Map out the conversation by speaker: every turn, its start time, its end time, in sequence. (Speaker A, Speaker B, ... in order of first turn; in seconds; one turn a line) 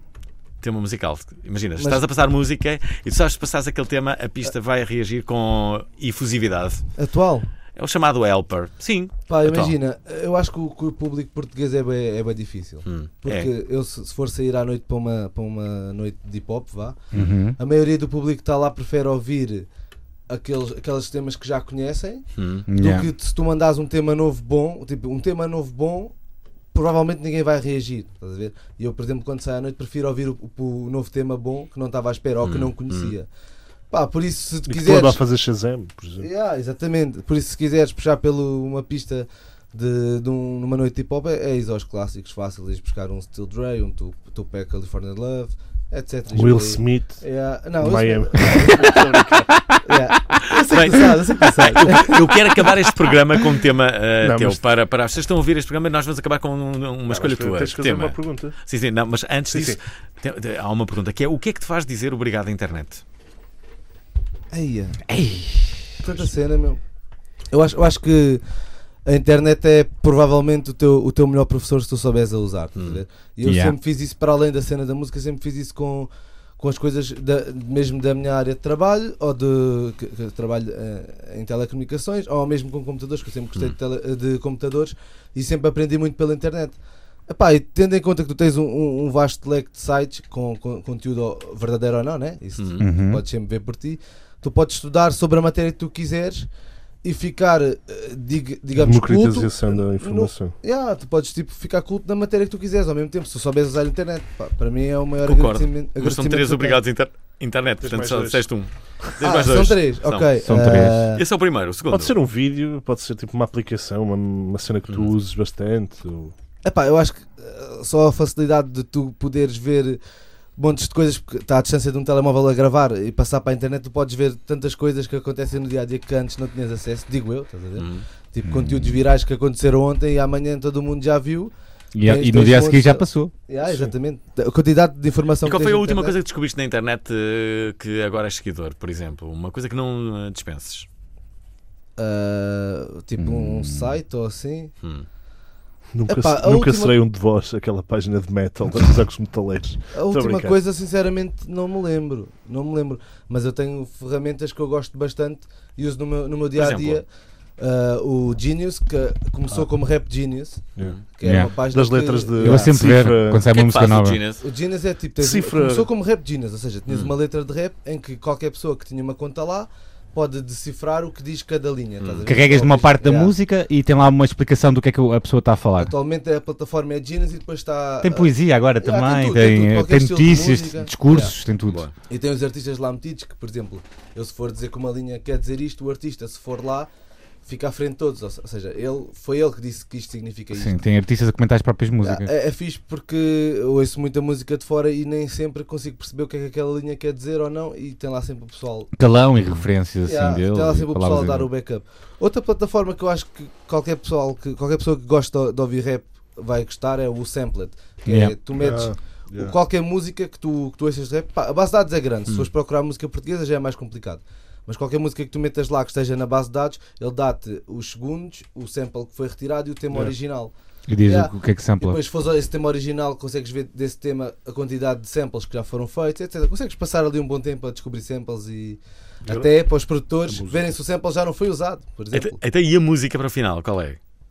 Speaker A: 0.6-6.8
Speaker B: 7.0-7.5
Speaker A: 7.8-9.8
Speaker B: 9.3-19.7
Speaker A: 12.8-13.5
Speaker C: 17.1-17.6
Speaker B: 20.3-26.1
Speaker A: 22.4-22.7
Speaker C: 22.7-23.1
Speaker B: 26.7-33.3
Speaker A: 32.4-33.1
Speaker B: 33.9-35.2
Speaker D: 34.7-36.3
Speaker B: 36.2-49.0
Speaker D: 46.3-47.2
Speaker D: 47.8-49.7
Speaker B: 49.8-52.2
Speaker A: 50.7-63.0
Speaker D: 54.2-54.6
Speaker D: 57.1-58.5
Speaker D: 59.5-59.8
Speaker B: 64.5-65.1
Speaker C: 65.1-65.9
Speaker B: 66.0-66.8
Speaker B: 67.5-68.4
Speaker B: 69.0-86.8
Speaker A: 72.8-73.0
Speaker C: 73.4-73.7
Speaker B: 87.3-96.5
Speaker A: 92.6-92.8
Speaker C: 92.8-93.2
Speaker B: 97.0-106.8
Speaker D: 98.8-100.5
Speaker A: 105.2-110.3
Speaker D: 107.8-108.5
Speaker B: 109.2-111.2
Speaker C: 110.4-111.0
Speaker A: 111.1-112.2
Speaker D: 111.9-116.3
Speaker A: 114.9-115.1
Speaker B: 116.6-120.0
Speaker B: 120.6-131.5
Speaker A: 127.8-128.1
Speaker C: 128.4-129.0
Speaker C: 131.9-133.3
Speaker B: 132.0-136.1
Speaker D: 133.7-133.9
Speaker A: 135.4-140.9
Speaker B: 142.0-144.7
Speaker C: 143.2-143.9
Speaker A: 144.8-145.1
Speaker D: 145.9-150.6
Speaker B: 146.1-146.9
Speaker B: 149.9-157.1
Speaker A: 156.6-157.0
Speaker B: 157.6-162.7
Speaker C: 161.2-161.5
Speaker D: 161.7-163.5
Speaker C: 162.4-164.2
Speaker A: 163.5-164.4
Speaker B: 164.4-173.3
Speaker D: 165.2-165.9
Speaker A: 166.9-167.1
Speaker A: 172.0-172.3
Speaker C: 172.3-175.9
Speaker B: 175.8-181.3
Speaker C: 178.0-181.8
Speaker A: 181.7-181.9
Speaker B: 182.1-186.9
Speaker B: 187.4-190.7
Speaker C: 190.5-192.3
Speaker B: 192.0-198.9
Speaker C: 199.0-201.5
Speaker A: 199.4-199.7
Speaker B: 200.0-220.5
Speaker C: 208.1-208.3
Speaker D: 208.5-209.5
Speaker C: 220.9-222.0
Speaker B: 221.0-232.4
Speaker D: 230.3-230.6
Speaker A: 232.1-234.0